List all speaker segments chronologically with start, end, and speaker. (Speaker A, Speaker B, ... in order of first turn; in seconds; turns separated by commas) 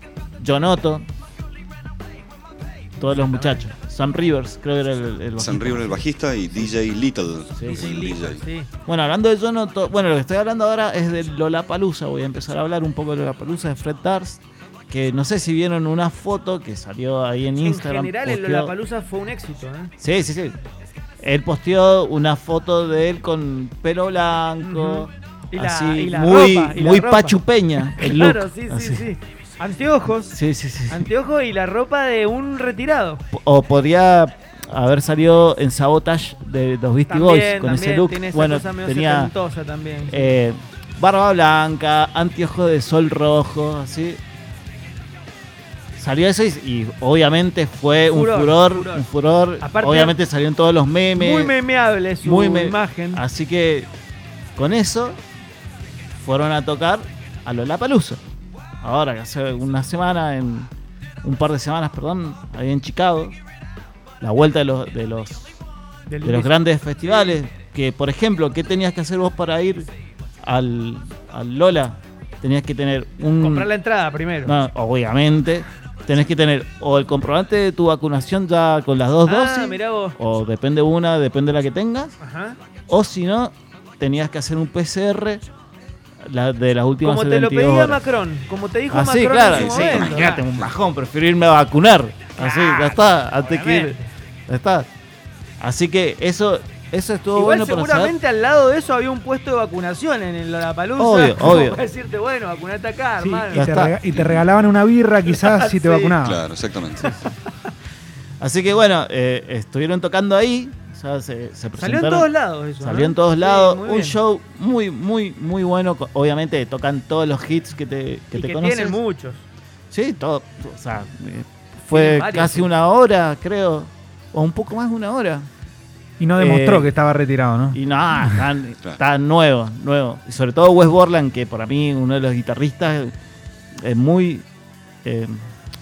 Speaker A: 0.4-1.1, Speaker A: 3.0-6.0, Speaker B: 3.0-3.6, Speaker C: 5.4-8.4, Speaker A: 7.6-7.9, Speaker B: 7.7-8.7, Speaker A: 8.9-18.7, Speaker B: 17.6-19.9, Speaker A: 20.0-20.6, Speaker A: 21.2-29.1, Speaker B: 24.6-30.4, Speaker A: 30.3-31.0, Speaker B: 30.9-33.2, Speaker A: 33.3-39.3, Speaker B: 37.1-40.3, Speaker A: 40.1-44.2, Speaker A: 46.0-51.6, Speaker B: 48.1-49.1, Speaker B: 49.6-50.2, Speaker B: 51.1-53.2, Speaker A: 52.2-53.9, Speaker A: 54.6-55.2, Speaker A: 56.2-58.2, Speaker A: 58.8-60.7, Speaker A: 61.2-63.4, Speaker A: 64.2-65.5, Speaker B: 66.1-67.3, Speaker A: 66.2-69.9, Speaker A: 70.4-73.7, Speaker B: 73.4-74.6, Speaker A: 74.4-82.2, Speaker B: 79.2-80.2, Speaker B: 82.2-82.6, Speaker A: 82.9-85.4, Speaker A: 86.2-88.0, Speaker B: 87.0-90.4, Speaker A: 88.9-94.0, Speaker C: 89.5-90.7, Speaker B: 92.4-94.1, Speaker A: 94.5-94.9, Speaker A: 95.6-98.2, Speaker B: 97.3-103.9, Speaker A: 101.0-101.8, Speaker D: 103.2-106.4, Speaker A: 103.5-103.9, Speaker C: 104.1-104.4, Speaker B: 105.3-106.2, Speaker C: 106.2-107.0, Speaker B: 107.0-107.2, Speaker A: 107.0-107.3, Speaker A: 108.4-112.3, Speaker B: 111.8-114.2, Speaker A: 112.8-119.0, Speaker B: 118.3-119.5, Speaker A: 119.9-125.5, Speaker B: 121.9-122.7, Speaker D: 126.2-127.8, Speaker A: 126.4-126.9, Speaker A: 127.7-133.1, Speaker A: 133.8-134.5, Speaker A: 135.1-135.5